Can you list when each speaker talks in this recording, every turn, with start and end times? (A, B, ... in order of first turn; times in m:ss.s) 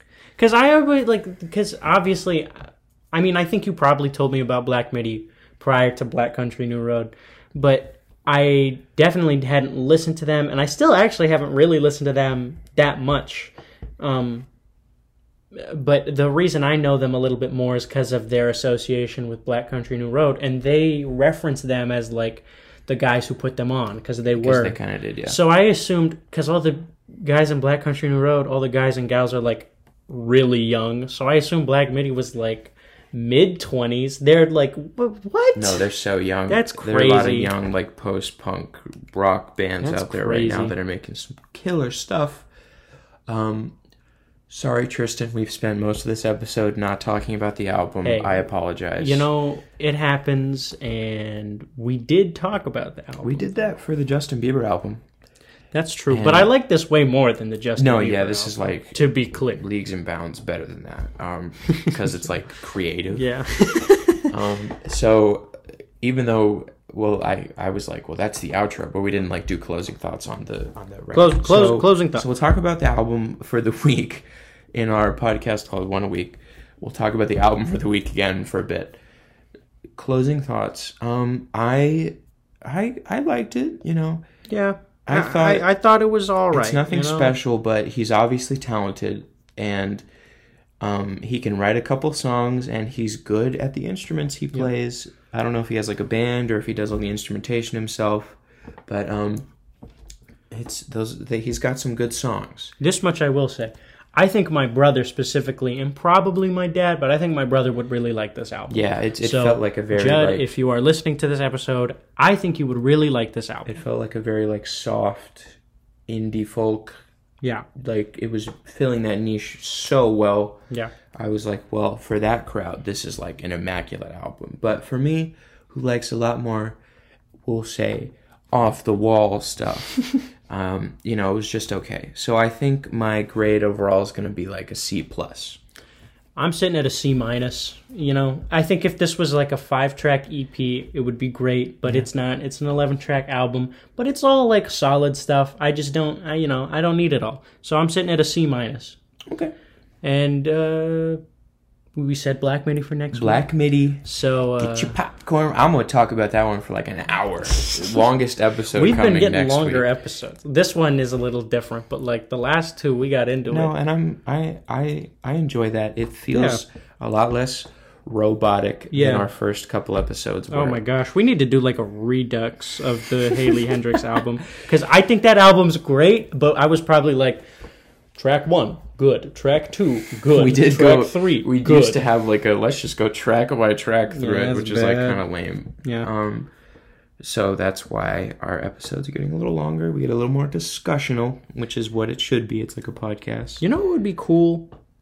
0:00.4-0:14.5 A
0:15.5-0:35.8 A
0:24.4-0:25.4 B
0:35.6-0:42.5 B
0:36.5-0:37.5 A
0:39.8-0:40.8 A
0:43.3-0:43.8 B
0:44.5-0:49.3 B
0:48.0-0:48.4 A
0:49.0-0:53.7 A
0:53.2-0:55.0 B
0:55.7-0:59.6 A
0:56.1-0:56.5 B
0:57.8-1:19.0 B
1:03.2-1:04.3 A
1:11.2-1:12.3 A
1:20.0-1:24.2 B
1:24.5-1:27.4 A
1:25.1-1:25.7 B
1:26.5-1:30.0 B
1:30.8-1:39.5 B
1:40.5-1:42.7 B
1:42.8-1:53.8 A
1:48.7-1:50.5 B
1:53.7-1:57.0 B
1:57.8-2:00.6 B
2:01.1-2:06.8 B
2:07.4-2:15.6 B
2:16.4-2:29.0 A
2:29.3-2:29.5 B
2:30.0-2:31.2 A
2:32.0-2:33.5 A
2:33.1-2:34.1 B
2:34.0-2:35.0 A
2:34.6-2:39.9 B
2:38.8-2:43.7 A
2:43.5-2:50.8 B
2:46.3-2:46.6 A
2:48.9-2:49.3 A
2:50.5-2:57.4 A
2:58.2-3:02.0 A
3:00.3-3:06.5 B
3:04.1-3:05.2 A
3:05.8-3:06.1 A
3:07.2-3:13.6 B
3:13.6-3:14.7 A